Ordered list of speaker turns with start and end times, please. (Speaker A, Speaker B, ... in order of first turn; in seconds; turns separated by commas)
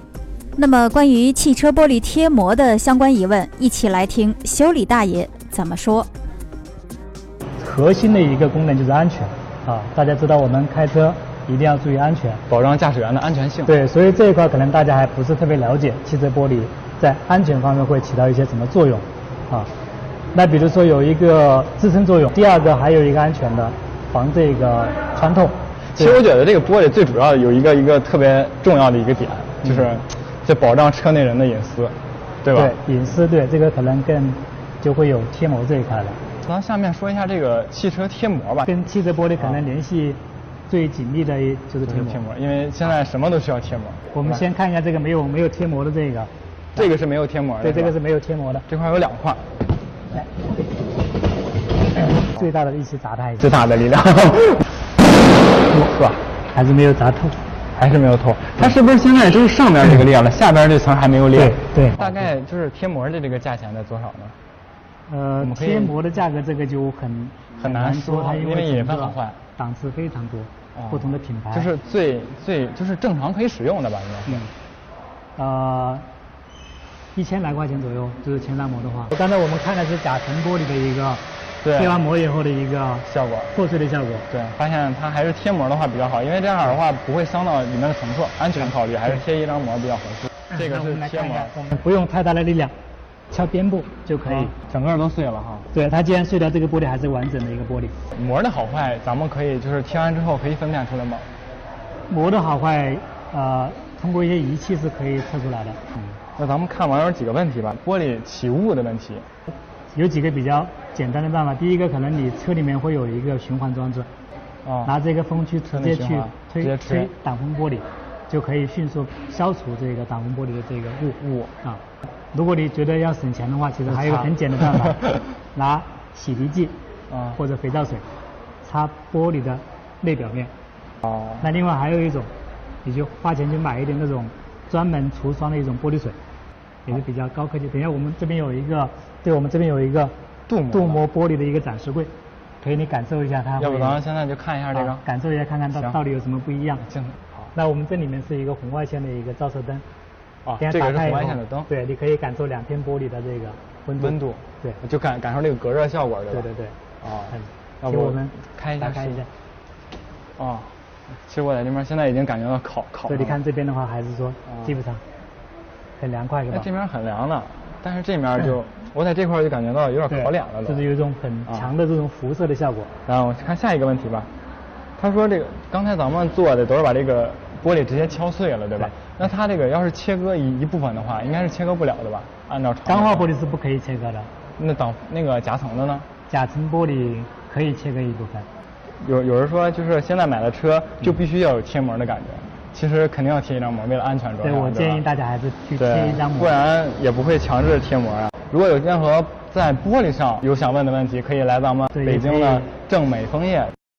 Speaker A: 0.6-6.1, Speaker B: 7.6-12.4, Speaker C: 12.5-13.8, Speaker B: 13.7-19.7, Speaker B: 20.3-26.1, Speaker C: 25.9-32.8, Speaker B: 32.5-36.2, Speaker C: 36.4-38.7, Speaker B: 38.6-42.2, Speaker C: 41.9-44.5, Speaker B: 44.1-46.9, Speaker C: 46.7-48.0, Speaker B: 47.6-48.6, Speaker C: 48.7-49.5, Speaker B: 52.1-53.5, Speaker C: 53.4-54.7, Speaker B: 55.7-56.0, Speaker C: 55.9-56.2, Speaker B: 56.5-57.4, Speaker C: 57.7-64.3, Speaker B: 61.3-62.1, Speaker B: 65.1-71.7, Speaker C: 65.4-66.0, Speaker C: 67.6-69.4, Speaker C: 70.7-74.5, Speaker B: 75.3-76.1, Speaker B: 77.1-84.3, Speaker C: 81.6-82.0, Speaker C: 83.0-83.5, Speaker C: 84.3-91.5, Speaker B: 90.5-92.7, Speaker B: 93.3-94.5, Speaker C: 94.2-95.7, Speaker B: 95.7-98.0, Speaker C: 98.1-101.3, Speaker B: 102.1-106.0, Speaker C: 106.3-109.2, Speaker B: 109.9-114.1, Speaker C: 114.6-114.9, Speaker B: 114.8-125.0, Speaker C: 115.7-117.1, Speaker C: 121.2-121.5, Speaker C: 123.9-124.3, Speaker B: 125.5-126.7, Speaker C: 127.1-127.4, Speaker B: 127.3-128.1, Speaker B: 128.6-130.5, Speaker C: 131.0-131.4, Speaker B: 131.4-132.3, Speaker B: 132.8-136.2, Speaker B: 136.8-140.1, Speaker C: 140.5-141.0, Speaker B: 140.7-144.0, Speaker C: 143.6-145.0, Speaker B: 144.7-146.9, Speaker C: 145.7-146.0, Speaker C: 146.9-147.5, Speaker B: 147.5-149.8, Speaker C: 150.4-151.7, Speaker B: 150.6-154.8, Speaker C: 154.0-156.5, Speaker B: 156.3-156.8, Speaker C: 157.0-159.2, Speaker B: 157.3-159.3, Speaker C: 160.4-163.4, Speaker B: 163.1-165.0, Speaker C: 164.5-164.7, Speaker B: 166.0-166.7, Speaker C: 166.5-170.8, Speaker B: 170.1-172.9, Speaker C: 173.1-174.3, Speaker C: 175.0-183.3, Speaker B: 182.8-184.3, Speaker C: 184.6-186.1, Speaker B: 186.3-188.5, Speaker C: 189.0-195.0, Speaker B: 194.4-196.5, Speaker C: 195.8-203.7, Speaker B: 201.9-202.7